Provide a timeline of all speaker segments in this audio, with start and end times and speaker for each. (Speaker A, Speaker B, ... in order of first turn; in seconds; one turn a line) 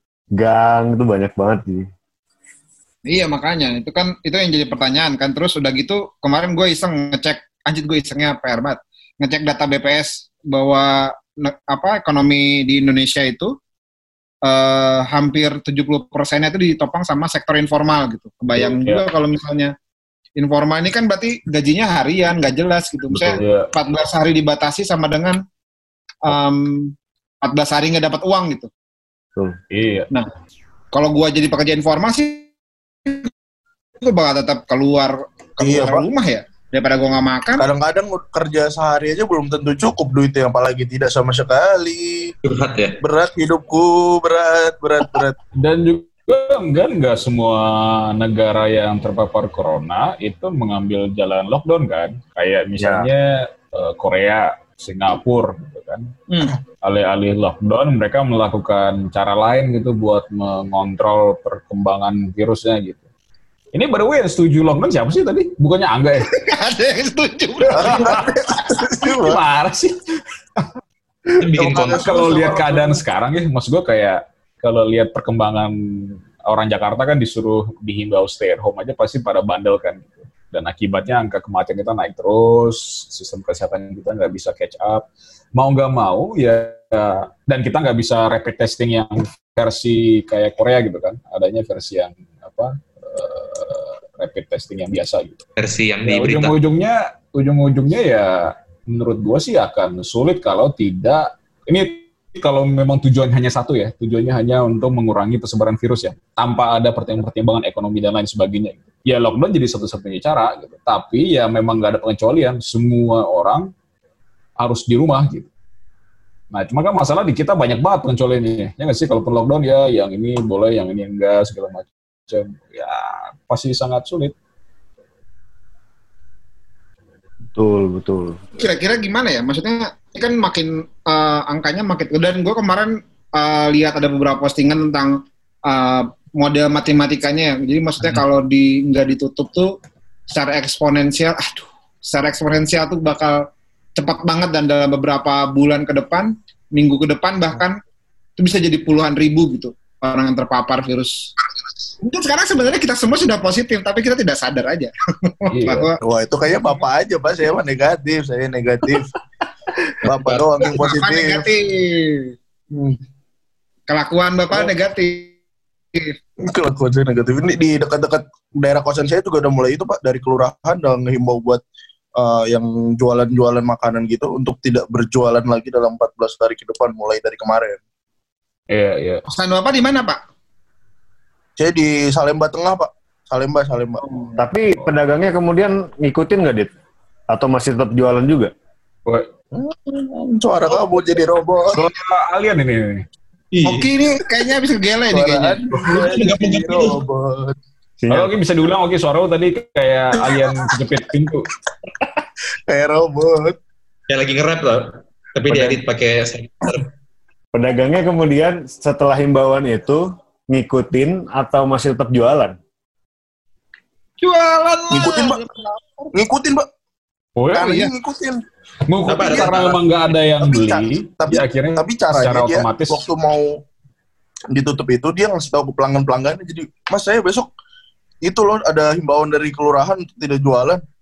Speaker A: 0.3-1.9
Speaker B: 3.1-13.5
Speaker B: 14.4-19.7
Speaker C: 18.6-19.0
Speaker B: 20.4-25.4
Speaker C: 23.1-23.7
Speaker B: 26.2-28.7
Speaker C: 29.7-30.1
Speaker B: 30.9-32.5
Speaker B: 34.0-37.6
Speaker D: 35.6-36.0
Speaker D: 37.6-42.3
Speaker E: 42.5-43.0
Speaker D: 43.0-45.4
Speaker C: 45.6-56.1
Speaker A: 52.8-53.1
Speaker C: 56.8-63.0
Speaker C: 63.7-66.3
Speaker B: 66.4-68.3
Speaker D: 67.7-69.4
Speaker C: 67.8-68.3
Speaker C: 69.1-69.9
Speaker E: 71.4-72.3
Speaker D: 71.5-73.0
Speaker C: 71.8-95.4
Speaker E: 95.6-96.5
Speaker C: 96.0-113.7
Speaker C: 114.6-115.5
Speaker C: 116.5-124.3
Speaker A: 127.5-128.4
Speaker B: 128.6-139.7
Speaker B: 140.3-143.4
Speaker B: 144.0-147.8
Speaker B: 148.4-151.3
Speaker B: 152.0-156.0
Speaker C: 155.5-155.9
Speaker D: 156.0-159.1
Speaker D: 160.0-161.4
Speaker B: 160.6-162.3
Speaker D: 162.7-163.0
Speaker B: 163.9-165.3
Speaker D: 166.4-171.6
Speaker D: 172.2-177.8
Speaker C: 178.7-179.2
Speaker B: 179.3-180.2
Speaker D: 181.6-184.0
Speaker A: 184.4-186.7
Speaker A: 187.3-188.5
Speaker D: 189.5-191.9
Speaker C: 191.7-193.0
Speaker E: 193.5-193.9
Speaker B: 193.6-195.6
Speaker D: 195.1-197.6
Speaker E: 195.9-197.0
Speaker A: 198.0-198.3
Speaker C: 198.1-201.5
Speaker D: 202.7-203.6
Speaker E: 204.1-206.8
Speaker A: 207.5-212.6
Speaker B: 214.2-216.1
Speaker D: 214.9-215.4
Speaker D: 216.1-216.7
Speaker C: 217.4-217.9
Speaker D: 217.5-218.4
Speaker C: 218.9-223.1
Speaker E: 219.1-219.8
Speaker D: 219.2-219.7
Speaker D: 220.4-223.5
Speaker D: 224.5-227.5
Speaker D: 228.2-230.8